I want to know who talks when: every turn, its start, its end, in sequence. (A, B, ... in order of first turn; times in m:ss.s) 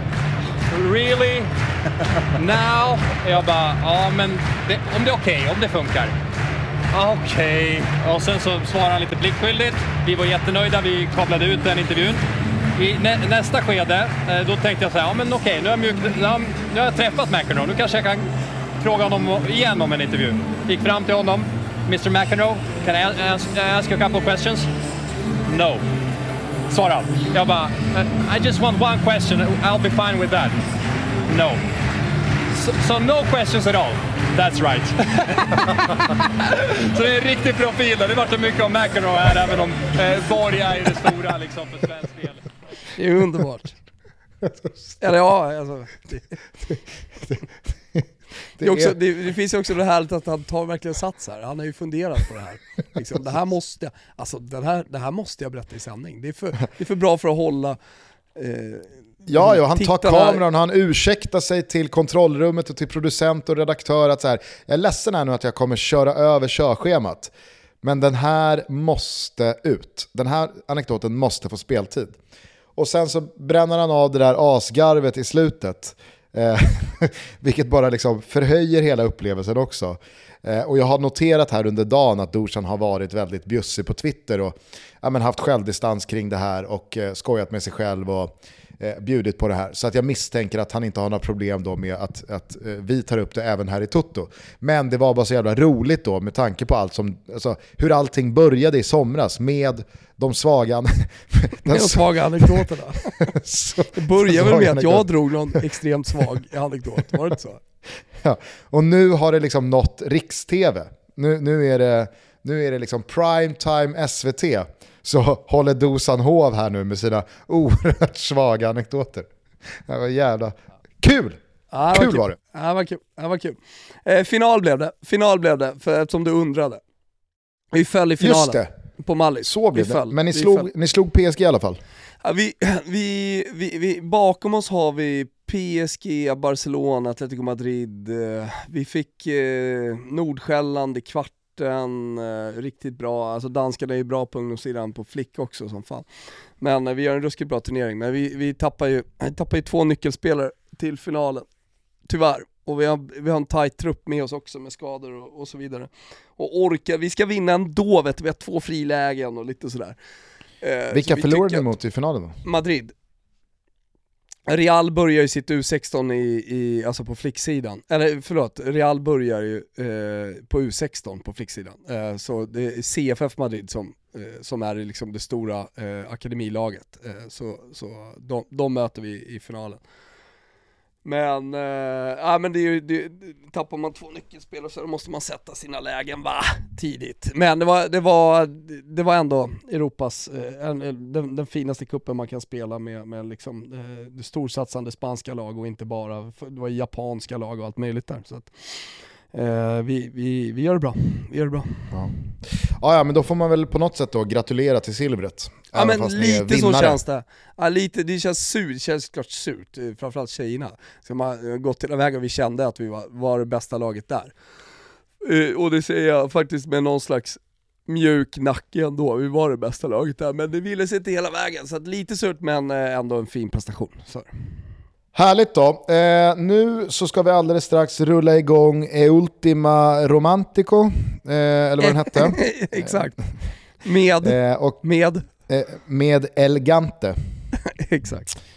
0:00.7-0:01.5 A
0:02.4-0:06.1 A
0:06.9-0:12.2 A
0:12.8-0:18.3 A
0:18.8-0:24.7 A
0:25.5-0:25.8 A
0:26.7-0:30.6 A
0:31.3-0:31.6 A
0:32.6-0:42.4 A
0:43.0-0:43.8 B
0:45.0-0:46.4 B
0:46.7-0:47.4 C
0:48.6-0:49.0 C
0:48.6-0:57.8 B
0:58.4-1:00.4 B
0:59.3-1:12.2 C
1:12.8-1:42.6 C
1:41.7-1:43.3 B
1:43.2-1:45.6 C
1:43.9-1:47.6 B
1:48.2-2:01.4 C
2:01.7-2:06.8 B
2:01.9-2:02.4 C
2:07.7-2:10.7 B
2:08.2-2:08.7 C
2:09.4-2:11.8 C
2:12.2-2:26.1 B
2:26.6-2:31.5 B
2:32.1-2:40.0 B
2:40.6-2:41.7 B
2:40.9-2:42.4 C
2:42.4-2:42.9 B
2:44.5-2:59.8 B
3:01.0-3:22.0 B
3:21.9-3:27.0 C
3:25.7-3:34.3 B
3:35.2-3:44.3 B
3:45.2-3:53.0 C
3:51.8-3:53.2 B
3:53.8-3:55.3 B
3:54.2-3:54.8 C
3:55.5-3:57.2 C
3:57.8-3:58.3 B